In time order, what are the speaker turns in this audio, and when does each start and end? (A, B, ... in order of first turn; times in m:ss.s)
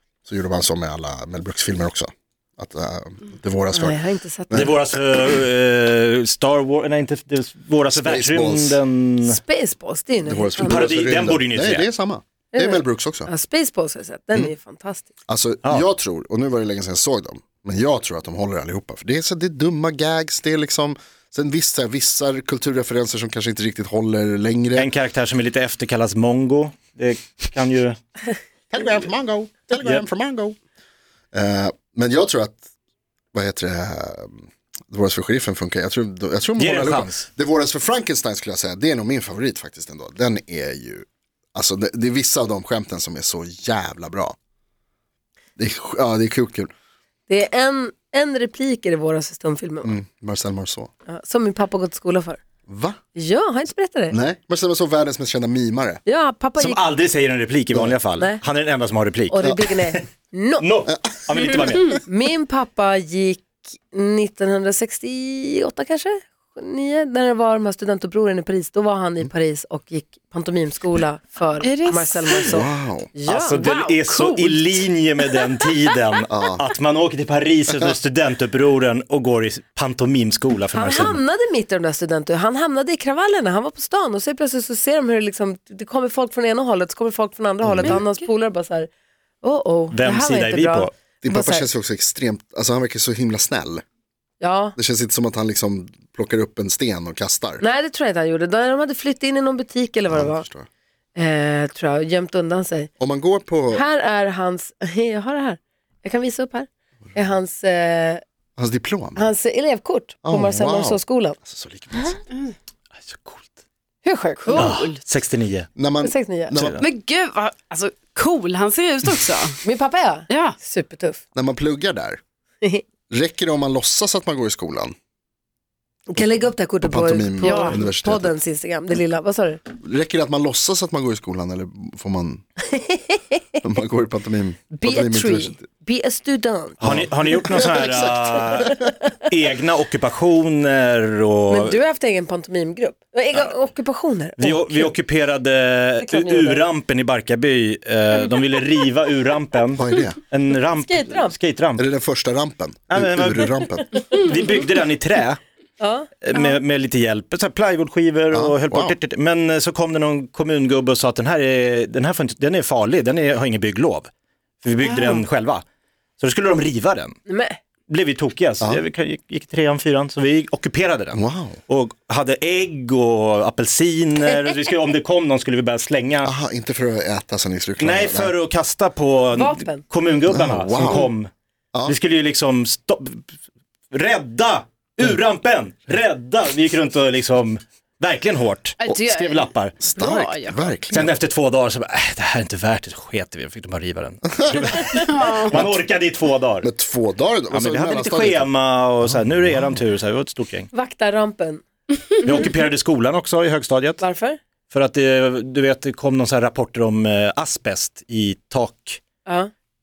0:00.2-0:04.8 A
0:03.7-0:04.7 B
0:04.5-0:09.4 C
0:07.9-0:08.8 A
0:09.2-0:10.8 B
0:10.2-0:13.3 A
0:10.6-0:11.9 C
0:12.5-0:15.1 B
0:15.3-0:24.9 A
0:24.7-0:28.0 C
0:28.7-0:30.6 A
0:31.3-0:32.6 A
0:33.3-0:44.4 A
0:36.6-0:37.2 C
0:45.6-0:46.7 A
0:47.3-0:49.9 B
0:49.8-0:50.9 A
0:51.0-0:52.4 B
0:52.7-0:53.0 A
0:53.1-0:54.2 B
0:54.1-0:56.0 A
0:56.0-0:56.9 B
0:56.6-1:00.0 C
0:58.2-0:58.4 B
0:59.3-1:00.7 B
0:59.4-0:59.7 A
1:00.6-1:02.0 C
1:00.9-1:01.9 A
1:02.0-1:13.6 B
1:11.6-1:12.6 D
1:12.4-1:13.1 A
1:13.3-1:21.2 C
1:13.5-1:14.8 D
1:16.3-1:16.6 A
1:20.7-1:28.9 B
1:27.6-1:28.0 A
1:27.8-1:28.1 D
1:29.4-1:31.7 B
1:29.9-1:30.9 C
1:31.2-1:33.8 A
1:34.4-1:34.8 B
1:34.8-1:37.6 A
1:37.6-1:40.4 B
1:40.1-1:40.7 A
1:41.1-1:42.9 B
1:43.0-1:43.8 A
1:43.7-1:48.2 B
1:48.6-1:49.3 A
1:49.2-1:51.4 B
1:50.2-1:52.2 A
1:53.0-1:53.5 C
1:54.0-1:54.7 B
1:54.4-1:55.0 D
1:54.5-1:55.7 C
1:55.8-1:56.8 A
1:56.0-1:56.6 B
1:56.6-1:56.8 C
1:56.8-1:59.6 D
1:59.6-2:01.2 B
2:00.3-2:00.6 D
2:01.3-2:02.2 A
2:03.1-2:04.9 A
2:06.1-2:09.6 B
2:06.8-2:08.3 A
2:07.4-2:07.8 D
2:09.8-2:12.4 A
2:12.7-2:13.6 B
2:13.6-2:15.6 A
2:14.7-2:17.0 B
2:16.8-2:18.9 A
2:16.8-2:21.8 C
2:21.5-2:24.9 B
2:24.4-2:31.8 C
2:26.0-2:26.6 B
2:29.8-2:30.2 A
2:30.7-2:31.4 B
2:31.8-2:33.9 A
2:32.9-2:35.4 C
2:35.8-2:36.5 B
2:36.2-2:44.1 C
2:38.3-2:39.0 A
2:44.6-2:45.6 C
2:44.8-2:45.2 D
2:46.2-2:47.1 C
2:47.3-2:47.6 B
2:47.9-2:56.3 C
2:51.1-2:51.6 A
2:56.2-2:58.3 A
2:57.8-3:01.3 C
2:59.3-2:59.8 B
3:00.3-3:01.1 A
3:01.8-3:03.2 C
3:03.9-3:09.8 C
3:08.8-3:10.8 D
3:09.8-3:11.2 A
3:10.9-3:16.7 C
3:14.9-3:15.6 D
3:16.6-3:18.5 A
3:17.5-3:20.7 C
3:20.7-3:21.6 B
3:22.2-3:24.0 C
3:24.0-3:24.4 B
3:24.7-3:29.0 C
3:29.2-3:29.5 B